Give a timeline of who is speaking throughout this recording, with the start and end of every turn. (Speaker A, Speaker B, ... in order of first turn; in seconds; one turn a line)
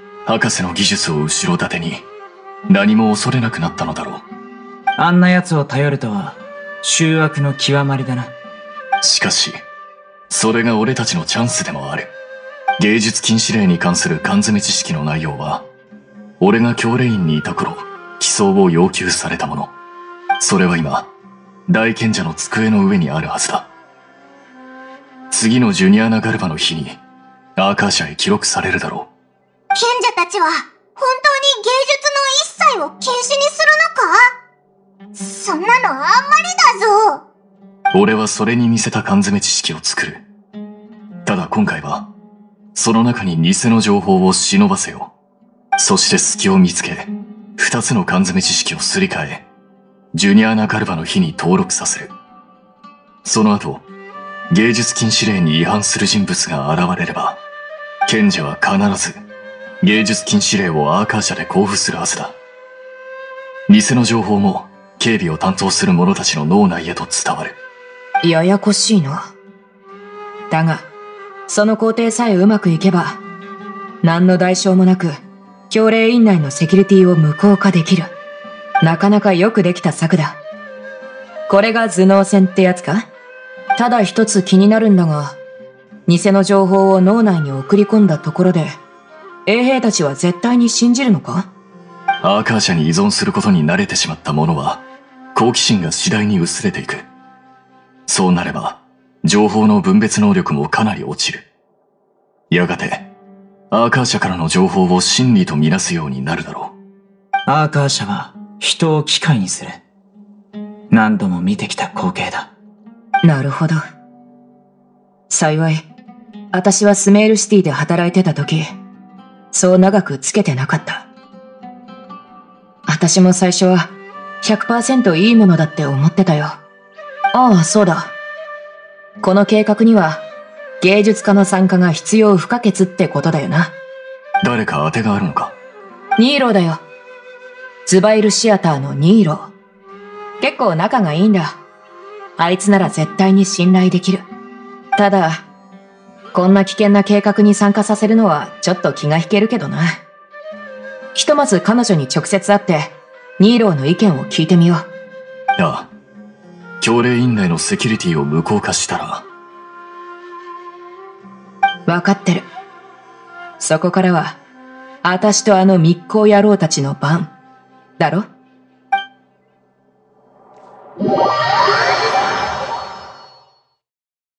Speaker A: 0.2-2.0
Speaker A: 2.7-4.2
Speaker B: 5.0-8.3
Speaker A: 9.0-9.6
Speaker A: 10.3-12.1
Speaker A: 12.8-15.6
Speaker A: 16.4-19.7
Speaker A: 20.4-21.1
Speaker A: 21.7-23.7
Speaker A: 25.3-27.0
Speaker A: 27.6-29.1
Speaker C: 29.7-34.3
Speaker C: 35.1-37.2
Speaker A: 37.9-40.2
Speaker A: 41.2-42.1
Speaker A: 42.7-45.1
Speaker A: 45.8-49.4
Speaker A: 50.1-52.1
Speaker A: 53.2-53.8
Speaker A: 54.5-57.4
Speaker A: 58.0-59.2
Speaker A: 59.8-62.3
Speaker A: 63.7-67.5
Speaker D: 68.2-69.3
Speaker D: 70.5-70.9
Speaker D: 71.5-73.2
Speaker D: 74.0-78.1
Speaker D: 78.8-80.4
Speaker D: 81.5-83.1
Speaker D: 83.8-85.4
Speaker D: 86.1-88.8
Speaker D: 89.5-91.5
Speaker A: 92.2-94.8
Speaker A: 95.3-97.1
Speaker A: 98.1-101.5
Speaker A: 102.5-103.1
Speaker A: 103.7-106.7
Speaker B: 107.5-109.8
Speaker B: 110.9-112.5
Speaker D: 113.2-113.8
Speaker D: 115.3-115.8
Speaker D: 116.5-118.7
Speaker D: 119.5-121.0
Speaker D: 122.9-123.9
Speaker D: 124.4-126.6
Speaker D: 127.3-128.1
Speaker D: 129.2-130.2
Speaker D: 130.8-133.7
Speaker A: 134.4-135.5
Speaker D: 136.2-136.8
Speaker D: 137.9-139.5
Speaker D: 140.4-141.6
Speaker D: 142.4-144.2
Speaker D: 144.9-145.4
Speaker D: 146.3-150.0
Speaker D: 151.1-154.9
Speaker A: 155.6-155.9
Speaker A: 156.8-159.2
Speaker D: 161.9-162.4
Speaker D: 163.6-164.4
Speaker D: 165.0-167.3
Speaker D: 168.0-168.3